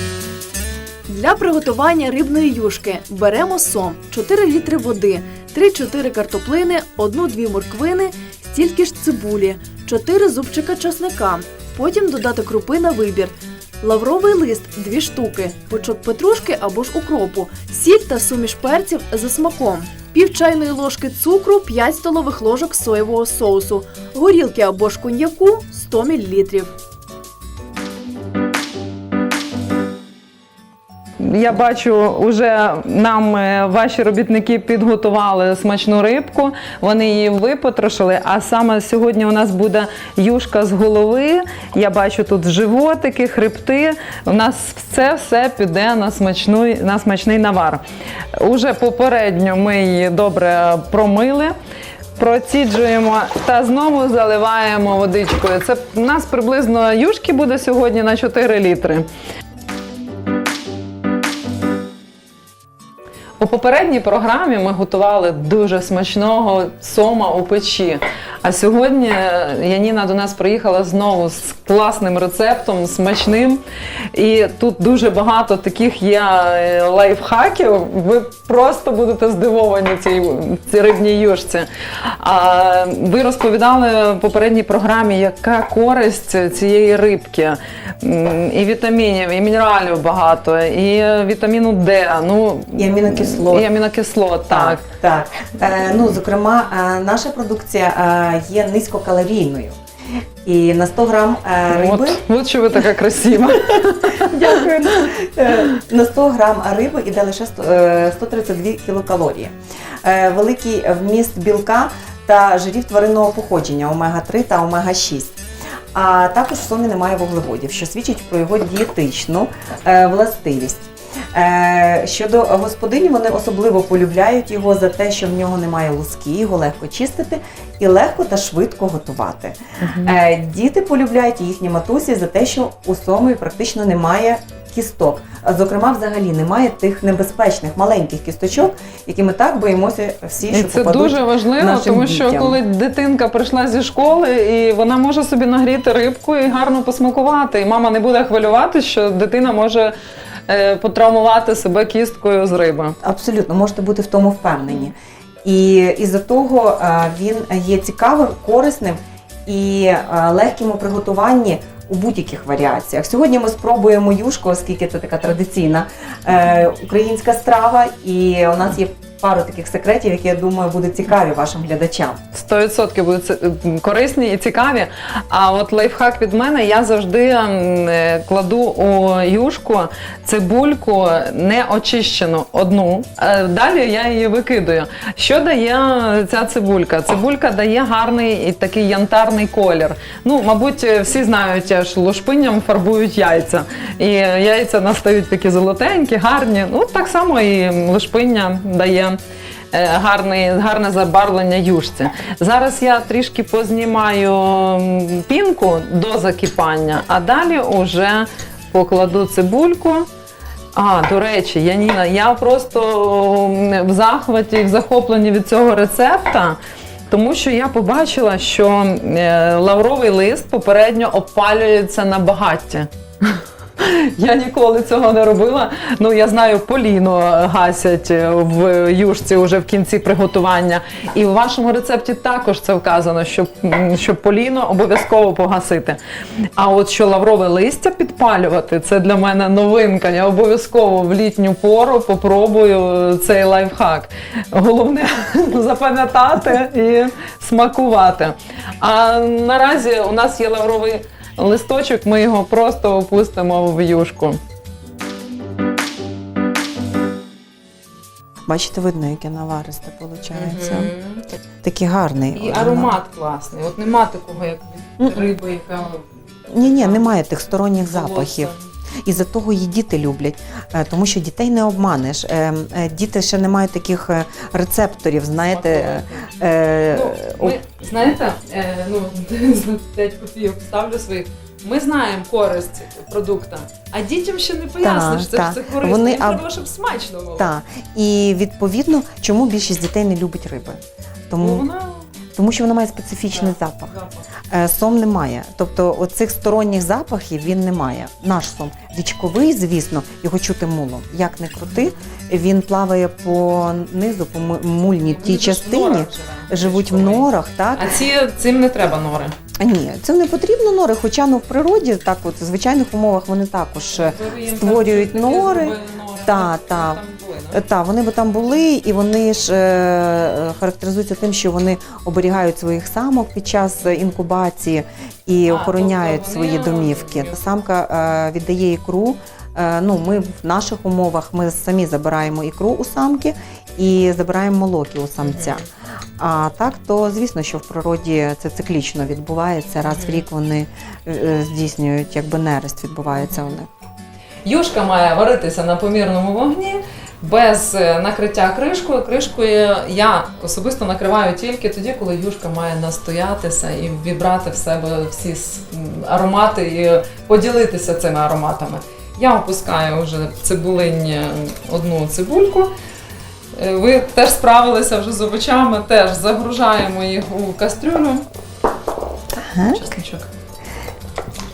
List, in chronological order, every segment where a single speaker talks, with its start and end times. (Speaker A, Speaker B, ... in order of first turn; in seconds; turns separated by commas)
Speaker A: 1.1-26.7, Speaker B: 31.2-47.8, Speaker B: 48.4-51.5, Speaker B: 52.2-59.1, Speaker B: 63.4-73.6, Speaker B: 74.1-81.7, Speaker B: 82.2-94.8, Speaker C: 92.8-93.7, Speaker C: 94.5-99.8, Speaker C: 100.4-102.2, Speaker B: 101.7-104.7, Speaker C: 104.2-115.4, Speaker C: 115.9-142.6, Speaker B: 129.8-130.2, Speaker B: 140.5-149.9, Speaker B: 150.5-152.9, Speaker C: 153.0-172.2, Speaker B: 172.3-199.2, Speaker B: 199.7-210.1, Speaker B: 210.8-216.6, Speaker B: 217.1-236.0, Speaker B: 236.6-254.4, Speaker C: 258.5-260.9, Speaker B: 260.4-261.2, Speaker C: 261.6-263.0, Speaker B: 262.3-267.1, Speaker C: 265.0-265.3, Speaker C: 266.5-268.5, Speaker B: 267.8-268.6, Speaker C: 269.0-277.6, Speaker B: 275.4-276.2, Speaker B: 276.9-287.5, Speaker C: 284.8-286.4, Speaker C: 287.4-291.6, Speaker B: 291.4-292.0, Speaker C: 292.4-293.9, Speaker B: 293.3-294.2, Speaker C: 294.5-307.9, Speaker B: 305.0-309.4, Speaker C: 309.6-317.0, Speaker B: 313.9-317.6, Speaker C: 317.5-343.7, Speaker B: 325.5-327.4, Speaker B: 335.2-335.6, Speaker B: 339.9-340.2, Speaker B: 344.4-362.7, Speaker B: 363.5-368.2, Speaker C: 369.4-369.8, Speaker B: 369.7-370.3